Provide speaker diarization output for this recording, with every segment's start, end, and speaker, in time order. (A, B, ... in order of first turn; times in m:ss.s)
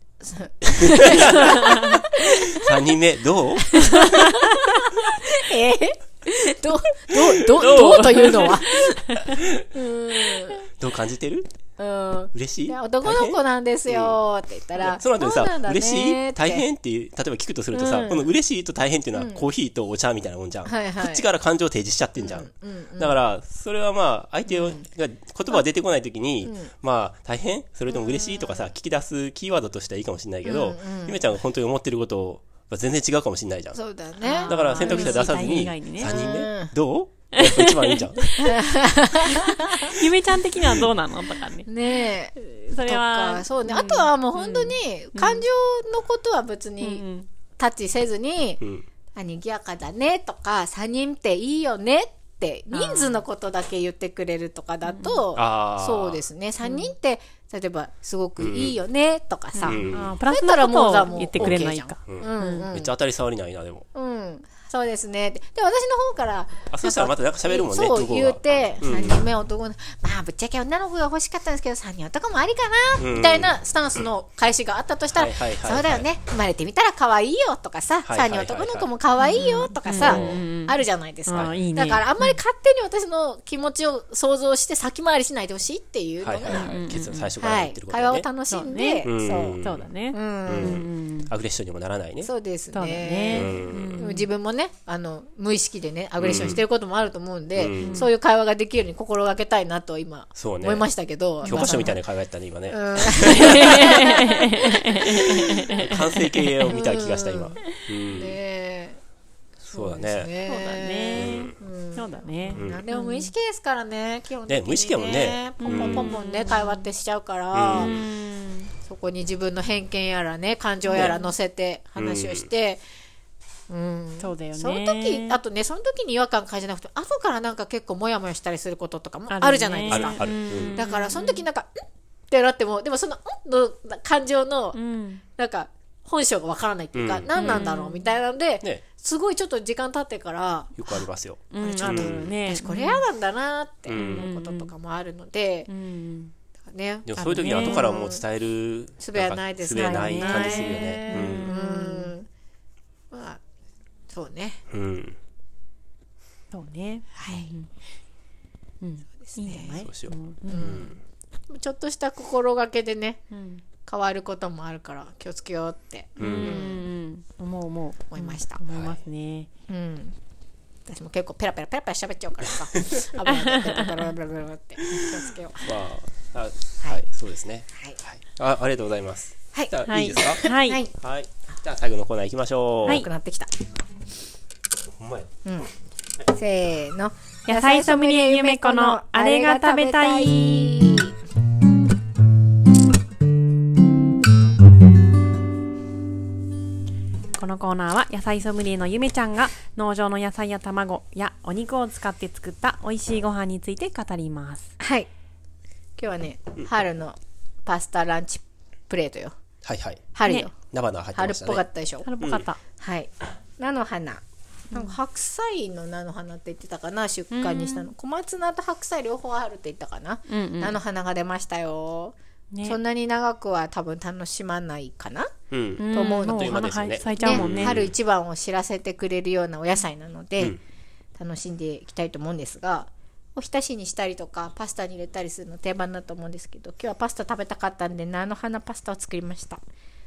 0:00.2-0:02.8 A
0:00.6-0:04.0 B
0:01.5-0:01.9 C
0:03.7-0:10.7 A
0:03.9-0:04.8 C
0:07.1-0:08.6 B
0:07.6-0:08.6 C
0:09.1-0:09.3 C
0:09.2-0:09.7 B
0:10.6-0:11.5 B
0:11.8-0:16.6 A
0:12.3-0:14.2 B
0:14.8-0:33.8 B
0:17.7-0:18.3 A
0:19.1-0:19.5 A
0:20.6-0:21.2 A
0:22.2-0:23.2 A
0:24.5-0:24.8 A
0:26.4-0:26.7 A
0:27.9-0:28.7 A
0:30.4-0:31.2 A
0:33.7-0:35.3 A
0:34.2-0:36.1 C
0:34.5-0:38.6 B
0:36.0-0:36.7 A
0:37.3-0:38.6 C
0:38.4-0:40.0 A
0:39.2-0:45.4 C
0:40.6-0:40.9 B
0:41.6-0:47.0 A
0:46.8-0:47.3 C
0:47.6-0:48.6 A
0:49.1-1:02.9 A
0:52.7-0:53.2 C
0:54.8-0:55.2 C
0:55.3-0:56.2 B
0:56.6-0:56.9 C
0:58.4-0:58.8 B
0:59.5-1:02.7 C
0:59.6-1:00.2 B
1:01.4-1:03.8 B
1:03.9-1:26.7 A
1:06.7-1:09.2 B
1:13.0-1:13.6 B
1:15.1-1:16.1 B
1:18.0-1:18.9 B
1:19.2-1:22.3 C
1:19.9-1:20.4 B
1:26.2-1:28.3 B
1:26.5-1:27.3 C
1:27.4-1:29.6 A
1:28.5-1:31.3 C
1:29.0-1:29.8 B
1:30.1-1:30.8 A
1:30.5-1:32.3 B
1:32.2-1:42.0 A
1:32.7-1:34.3 C
1:33.3-1:34.0 B
1:36.2-1:36.6 B
1:37.6-1:38.0 B
1:37.8-1:38.1 C
1:40.4-1:40.9 B
1:41.4-1:41.9 C
1:41.4-1:44.2 B
1:42.7-1:45.8 A
1:43.2-1:46.7 C
1:44.9-1:48.4 B
1:46.6-1:47.6 A
1:48.1-1:49.0 A
1:49.6-1:58.0 A
1:49.7-1:50.3 B
1:50.4-1:53.3 C
1:51.1-1:51.5 B
1:52.5-1:52.8 B
1:54.5-1:56.1 B
1:55.6-1:56.9 C
1:57.5-1:58.0 B
1:57.7-1:58.7 C
1:58.8-2:02.8 A
2:00.9-2:01.3 C
2:00.9-2:01.2 B
2:02.0-2:02.5 B
2:03.7-2:14.8 A
2:04.2-2:05.4 C
2:09.3-2:11.4 C
2:09.9-2:10.8 B
2:14.7-2:15.2 C
2:15.3-2:21.0 A
2:16.9-2:17.7 B
2:17.3-2:18.1 C
2:20.8-2:22.3 B
2:21.5-2:23.0 C
2:21.6-2:25.7 A
2:23.9-2:24.3 B
2:24.0-2:24.7 C
2:25.7-2:26.3 C
2:26.7-2:28.2 A
2:27.1-2:31.5 B
2:27.2-2:27.9 C
2:29.0-2:32.3 A
2:29.7-2:32.1 C
2:33.1-2:33.4 A
2:34.1-2:34.6 A
2:34.7-2:35.2 B
2:36.5-2:37.7 C
2:37.2-2:37.5 A
2:38.8-2:40.8 C
2:39.2-2:39.8 A
2:39.7-2:40.9 B
2:40.5-2:41.0 A
2:41.5-2:43.2 A
2:43.3-2:43.6 C
2:43.8-2:46.8 A
2:46.2-2:46.6 B
2:46.2-2:49.5 C
2:48.1-2:48.6 A
2:48.7-2:49.0 B
2:49.7-2:50.2 A
2:50.9-2:55.7 A
2:52.8-2:53.0 B
2:53.2-2:54.0 C
2:55.6-3:00.4 B
2:59.5-3:00.9 A
2:59.8-3:00.8 C
3:01.0-3:03.0 B
3:02.8-3:03.5 A
3:05.0-3:05.3 B
3:05.4-3:05.7 A
3:06.3-3:11.1 A
3:07.5-3:10.7 C
3:17.4-3:24.7 C
3:24.8-3:25.1 A
3:26.0-3:29.4 A
3:29.6-3:30.1 B
3:30.1-3:30.6 A
3:30.7-3:31.6 B
3:31.1-3:32.1 A
3:32.0-3:32.6 C
3:32.2-3:32.4 B
3:32.8-3:45.4 A
3:37.3-3:37.9 C
3:40.3-3:40.8 C
3:42.5-3:42.8 C
3:45.5-3:47.9 B
3:45.8-3:47.8 C
3:45.9-3:50.6 A
3:51.2-3:59.6 A